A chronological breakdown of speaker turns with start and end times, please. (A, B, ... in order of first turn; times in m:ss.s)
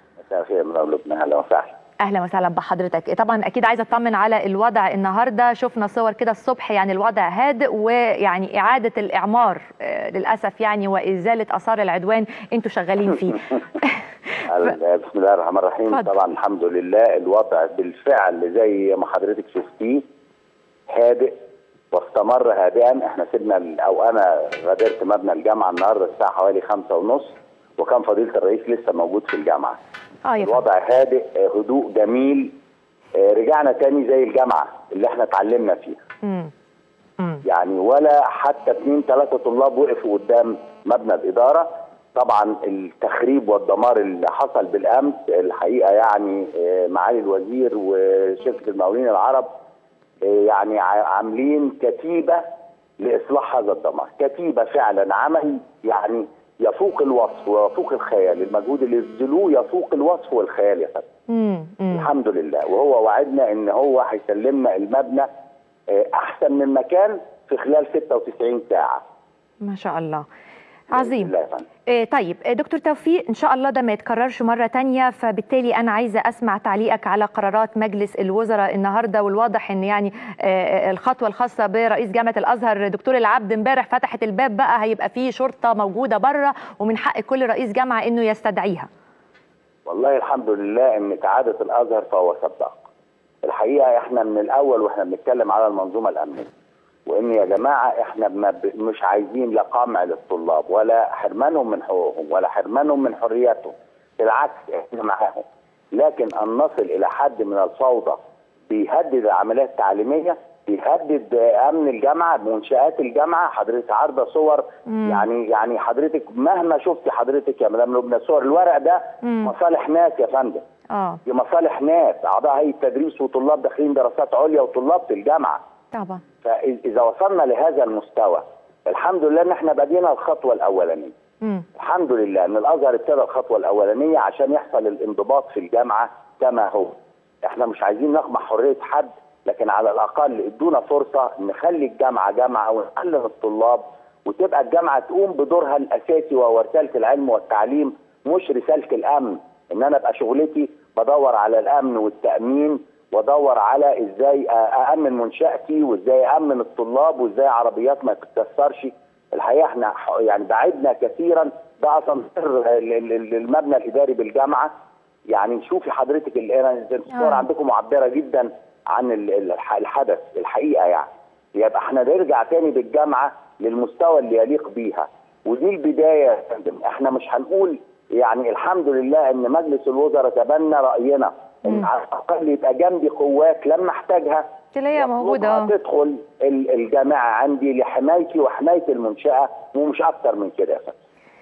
0:00.3-0:01.8 A
0:02.0-0:13.9 B
0:14.5-0:20.0 A
0:20.9-0:21.3 A
0:21.9-0:29.8 A
0:30.2-0:30.6 B
0:30.4-0:32.5 A
0:33.2-0:36.0 A
0:36.2-0:36.5 B
0:37.4-0:49.5 A
0:50.2-0:52.4 A
0:53.0-1:01.1 A
1:01.3-1:02.1 B
1:01.9-1:05.3 A
1:05.9-1:09.0 A
1:09.6-1:10.2 B
1:10.9-1:11.3 B
1:10.9-1:11.6 A
1:11.9-1:28.9 B
1:29.9-1:32.9 A
1:33.4-1:36.5 A
1:37.1-1:48.2 A
1:48.7-2:00.6 A
1:54.9-1:55.3 B
1:59.2-1:59.5 B
2:00.9-2:01.2 B
2:01.3-2:05.6 A
2:05.9-2:06.2 B
2:06.4-2:11.1 A
2:11.8-2:44.7 A
2:45.3-3:10.9 A
2:47.2-2:47.4 B
3:04.8-3:05.7 B